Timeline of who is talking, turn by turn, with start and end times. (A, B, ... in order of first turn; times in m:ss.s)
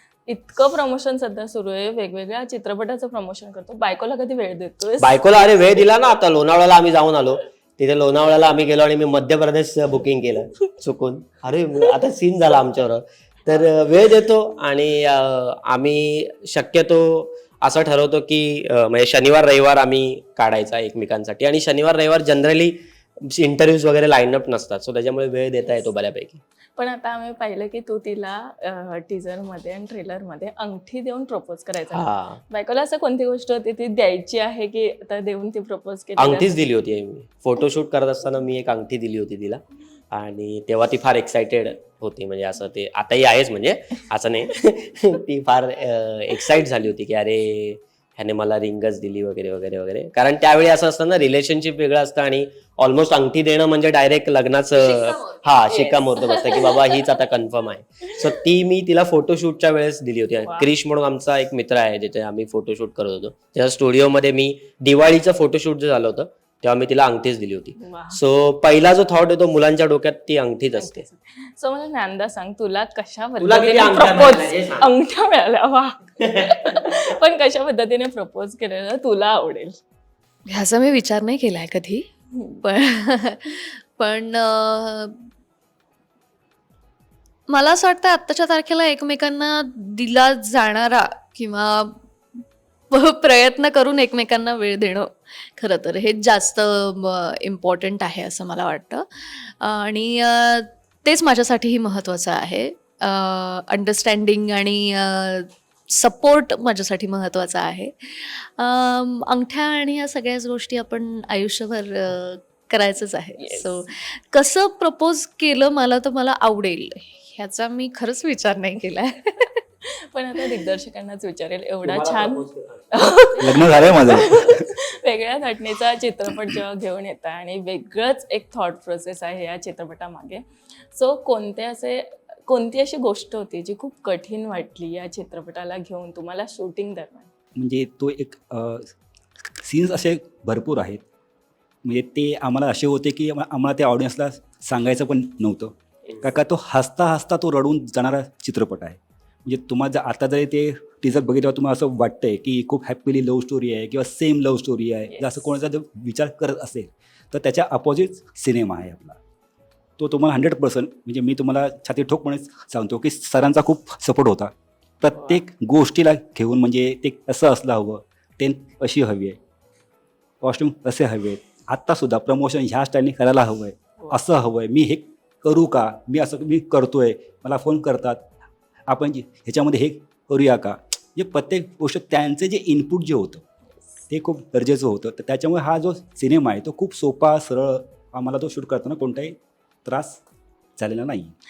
0:00.3-0:05.5 A
0:05.0-0:26.4 B
0:26.8-0:36.6 A
0:31.9-0:32.4 B
0:36.2-1:11.0 B
0:55.7-0:57.0 A
1:00.4-1:00.7 A
1:07.8-1:08.2 A
1:10.8-1:19.8 A
1:13.4-1:14.9 B
1:16.2-1:17.0 B
1:20.5-1:25.2 C
1:27.5-1:32.0 C
1:32.9-1:59.6 C
1:53.4-1:53.8 A
2:00.0-2:10.4 A
2:01.8-2:03.1 B
2:03.4-2:04.7 D
2:10.9-2:17.3 A
2:17.6-2:21.0 D
2:21.8-2:39.2 D
2:35.1-2:35.5 A
2:40.0-2:49.4 D
2:45.1-2:45.4 A
2:50.4-2:58.3 D
2:58.9-3:03.4 D
3:04.1-3:10.2 D
3:10.8-3:11.3 D